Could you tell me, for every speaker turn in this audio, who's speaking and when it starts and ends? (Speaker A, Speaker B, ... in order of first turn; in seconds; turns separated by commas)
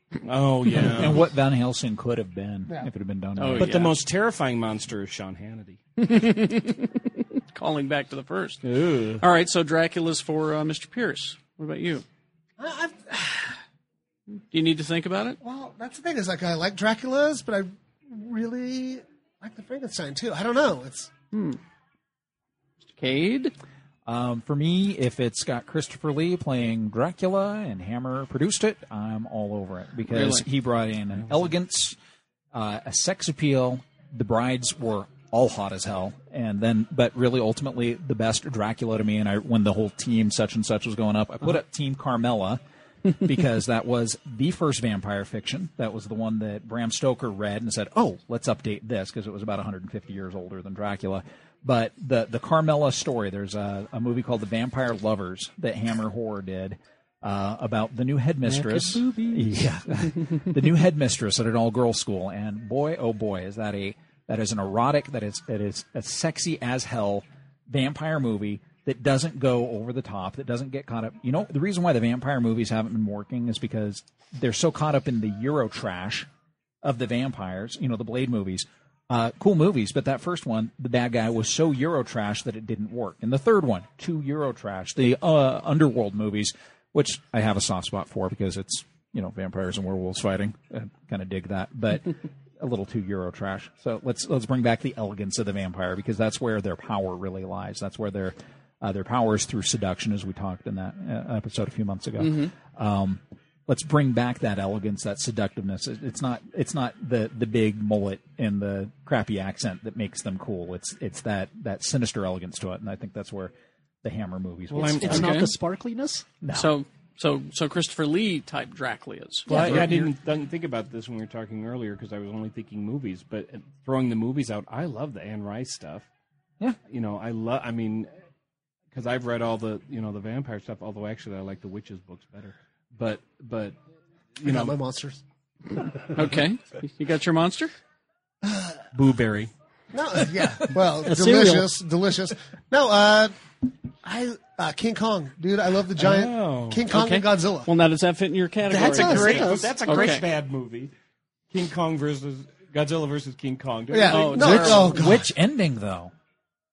Speaker A: 0.2-1.2, Speaker B: 0.8-3.7, Speaker C: 3.4-4.0, Speaker A: 3.6-5.8, Speaker C: 6.0-8.6, Speaker A: 8.6-9.2, Speaker C: 9.2-12.0, Speaker D: 12.6-13.6, Speaker C: 14.5-15.4, Speaker D: 15.4-21.1, Speaker C: 21.3-21.6, Speaker C: 22.9-23.5, Speaker B: 24.1-31.9, Speaker C: 30.1-30.4, Speaker B: 32.5-42.6, Speaker B: 43.2-76.3, Speaker E: 58.5-59.7, Speaker B: 76.8-115.3, Speaker C: 102.2-102.5, Speaker E: 114.7-116.2, Speaker A: 114.7-115.4, Speaker C: 115.0-115.5, Speaker B: 116.4-116.7, Speaker C: 116.5-119.8, Speaker B: 119.5-120.1, Speaker A: 119.5-126.1, Speaker E: 119.5-119.8, Speaker A: 126.9-128.1, Speaker A: 128.9-133.8, Speaker A: 134.4-134.8, Speaker D: 134.4-135.2, Speaker C: 136.1-137.7, Speaker D: 138.4-138.8, Speaker A: 138.9-139.5, Speaker D: 139.9-143.3, Speaker E: 141.0-141.7, Speaker D: 144.0-147.7, Speaker A: 146.0-147.0, Speaker C: 146.9-150.2, Speaker A: 148.7-150.9, Speaker E: 149.0-149.7, Speaker A: 151.5-154.9, Speaker D: 153.9-155.3, Speaker C: 154.1-155.0, Speaker B: 154.4-156.1